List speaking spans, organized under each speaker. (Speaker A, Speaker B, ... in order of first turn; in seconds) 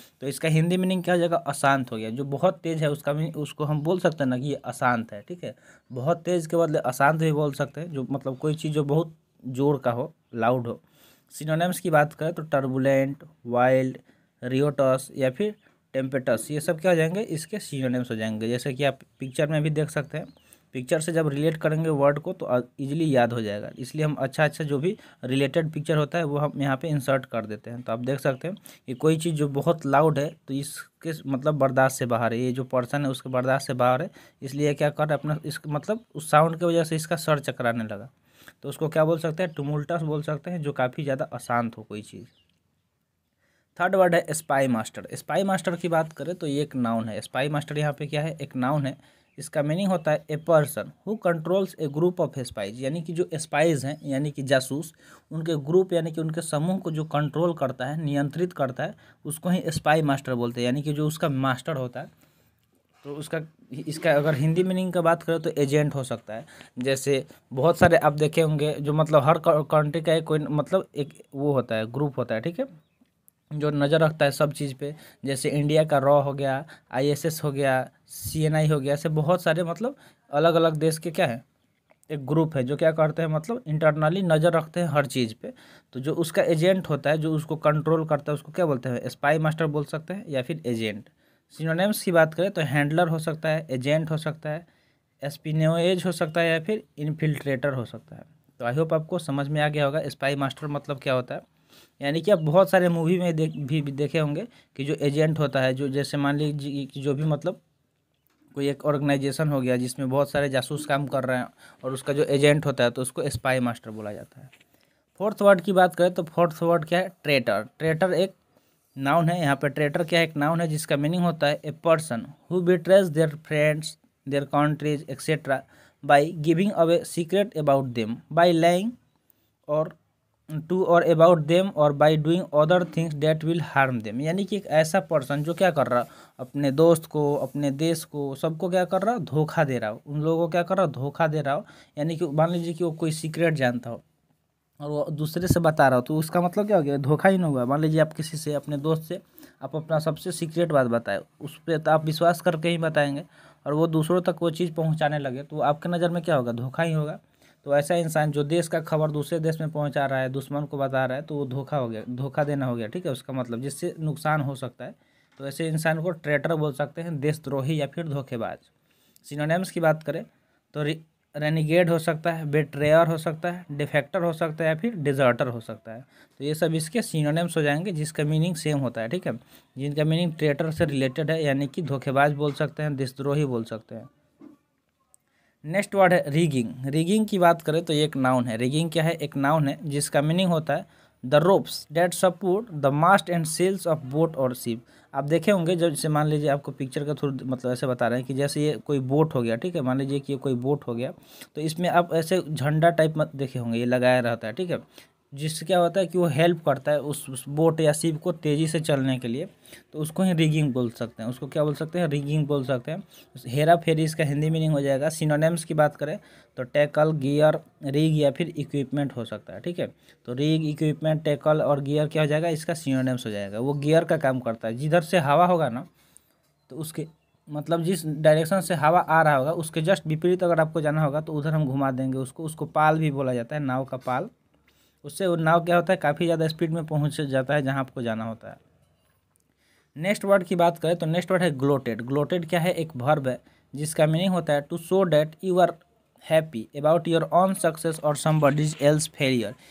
Speaker A: 0.2-38.1, 38.6-42.3, 43.8-62.1, 63.0-72.7, 73.5-81.4, 82.1-94.7, 95.2-101.4, 102.0-107.6, 108.5-114.5, 115.2-118.3, 119.0-128.9, 129.7-130.0, 130.5-144.0, 144.8-168.7, 169.2-184.1, 185.7-225.9, 226.7-234.3, 235.0-238.6, 240.0-249.6